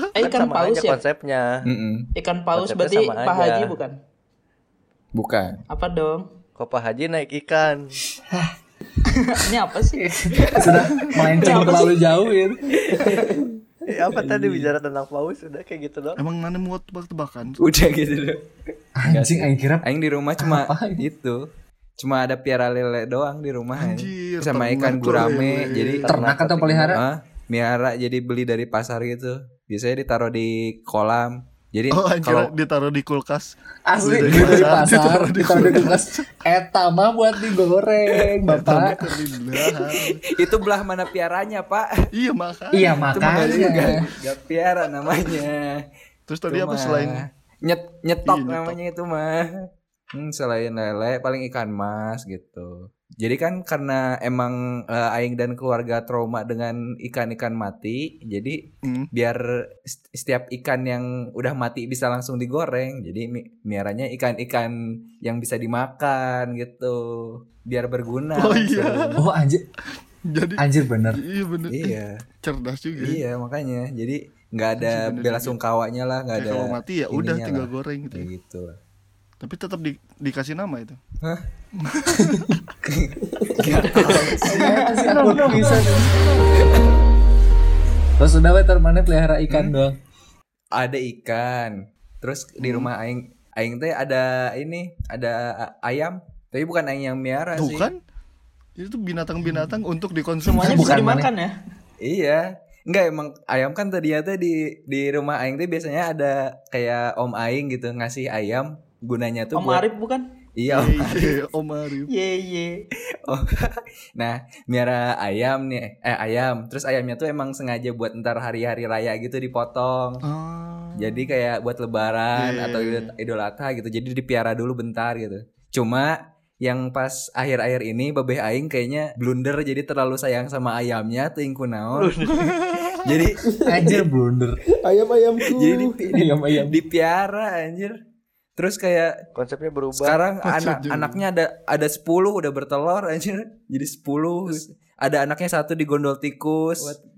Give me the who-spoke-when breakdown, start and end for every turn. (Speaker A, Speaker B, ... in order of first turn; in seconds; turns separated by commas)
Speaker A: 0.1-1.0, Speaker B: 0.2-1.6, Speaker C: 1.6-2.1, Speaker A: 2.1-3.9, Speaker B: 2.5-3.8, Speaker C: 5.1-5.6, Speaker A: 5.7-6.2, Speaker B: 6.6-8.0, Speaker A: 9.3-10.7, Speaker D: 9.9-12.7, Speaker A: 11.3-12.0, Speaker A: 12.9-13.2, Speaker E: 13.1-13.4, Speaker B: 13.9-16.2, Speaker C: 14.1-14.7, Speaker F: 16.2-17.6, Speaker C: 17.6-18.4, Speaker D: 19.0-19.8, Speaker C: 19.0-21.4, Speaker D: 20.4-21.0, Speaker C: 22.0-32.5, Speaker F: 23.8-26.1, Speaker B: 26.0-27.0, Speaker D: 26.1-27.0, Speaker F: 31.9-36.2, Speaker D: 33.9-39.2, Speaker C: 34.3-34.7, Speaker F: 38.5-40.2, Speaker C: 40.3-41.9, Speaker F: 42.1-44.0, Speaker D: 42.7-44.0, Speaker C: 43.1-45.8, Speaker F: 46.3-47.3, Speaker C: 46.5-49.5, Speaker F: 48.2-48.8, Speaker C: 50.1-58.6, Speaker C: 59.1-69.2, Speaker F: 68.3-69.2, Speaker D: 69.2-69.6, Speaker F: 70.3-73.2, Speaker D: 70.6-71.2, Speaker C: 71.7-72.1, Speaker C: 73.0-78.7, Speaker F: 74.8-75.6, Speaker F: 76.3-78.3, Speaker F: 79.4-81.0, Speaker F: 81.8-82.6, Speaker C: 82.8-84.5, Speaker D: 84.4-86.1, Speaker A: 84.5-85.2, Speaker D: 88.2-89.9, Speaker C: 89.5-89.8, Speaker C: 90.7-97.9, Speaker F: 92.6-92.9, Speaker F: 97.5-98.0, Speaker F: 98.8-100.9, Speaker A: 100.4-101.5, Speaker D: 100.6-101.3, Speaker C: 102.0-109.8, Speaker A: 109.5-110.2, Speaker C: 110.6-111.3, Speaker F: 110.7-112.1, Speaker A: 112.1-112.8, Speaker C: 113.3-120.2, Speaker F: 120.2-121.3, Speaker C: 121.0-132.1, Speaker F: 122.3-123.1, Speaker B: 131.9-132.5, Speaker F: 132.4-133.2, Speaker C: 133.0-133.4, Speaker E: 133.4-134.1, Speaker D: 133.7-134.6, Speaker E: 134.8-136.1, Speaker C: 135.4-137.9, Speaker D: 136.1-136.8, Speaker C: 138.6-139.1, Speaker B: 139.3-140.2, Speaker C: 139.9-147.0, Speaker F: 140.4-141.2